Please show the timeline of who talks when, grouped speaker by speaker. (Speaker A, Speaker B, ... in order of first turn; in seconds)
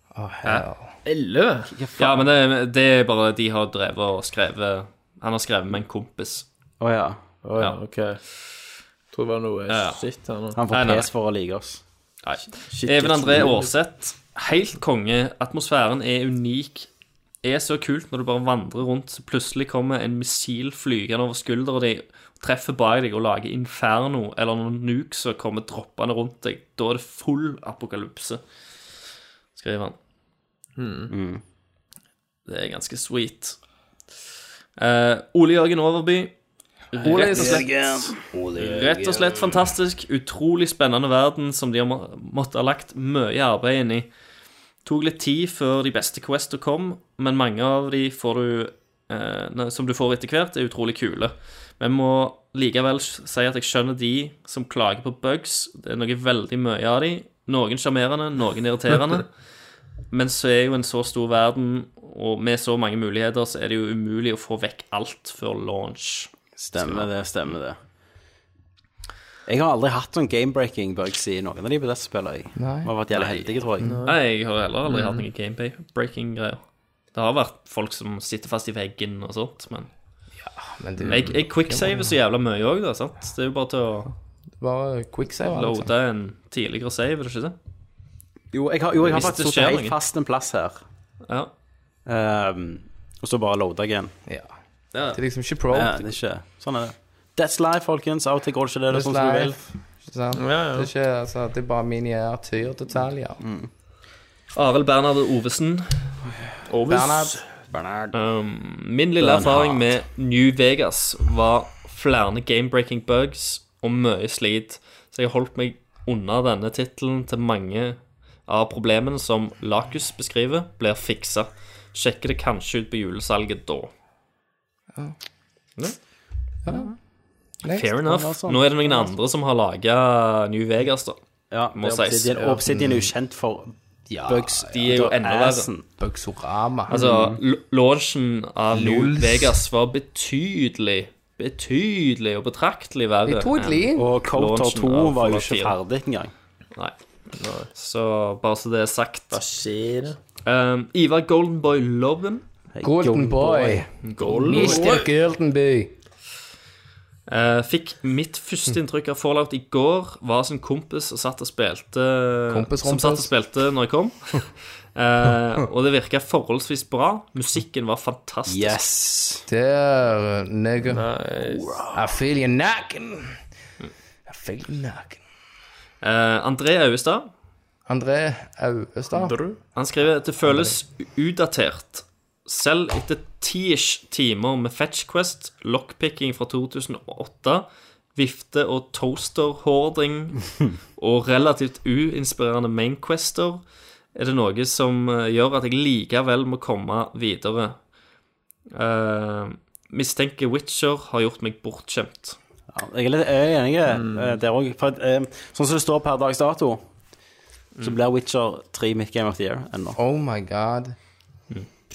Speaker A: 0.1-0.9, 37.0-37.7, 72.6-73.9, 80.4-82.1, 84.6-85.9, 95.1-96.2, 98.9-103.4, 106.8-107.4, 126.7-126.9, 127.6-127.9, 134.1-134.9, 136.0-137.0, 138.7-139.6, 143.3-144.1, 152.8-155.9, 162.5-163.3, 169.5-171.1, 171.7-173.4, 174.3-175.2, 177.9-179.4, 180.5-180.7, 209.9-210.9
Speaker B: 1.1-1.7, 7.4-8.2, 9.1-10.6, 12.7-13.7, 30.8-31.1, 73.8-74.2, 74.8-75.2, 100.3-100.9, 106.7-107.4, 147.3-147.7, 149.3-150.2, 154.2-155.1, 170.8-172.0, 179.1-179.6, 203.9-204.3
Speaker C: 1.7-2.2, 6.8-7.2, 10.6-11.8, 31.1-31.4, 37.0-39.5, 66.6-67.8, 69.5-74.0, 88.5-90.8, 92.1-94.1, 95.7-99.5, 103.4-103.7, 107.7-108.1, 109.2-109.8, 128.1-129.1, 131.5-133.7, 134.3-135.8, 136.9-137.4, 143.9-146.3, 152.7-153.9, 168.5-169.4, 202.7-206.8, 207.8-210.0
Speaker D: 2.0-6.5, 9.7-10.0, 10.7-11.1, 12.2-16.9, 17.4-28.4, 29.6-29.9, 32.5-33.6, 34.8-36.3, 36.9-44.1, 44.9-59.3, 60.1-67.1, 74.1-76.6, 77.2-79.9, 81.1-84.1, 85.5-87.5, 89.0-90.0, 94.9-95.2, 104.5-106.1, 108.1-123.9, 127.7-131.2, 131.7-132.6, 134.7-135.7, 136.9-145.8, 147.7-149.4, 150.4-152.4, 154.0-154.8, 157.3-168.8, 176.0-177.3, 179.8-193.6, 194.2-197.8, 198.7-202.4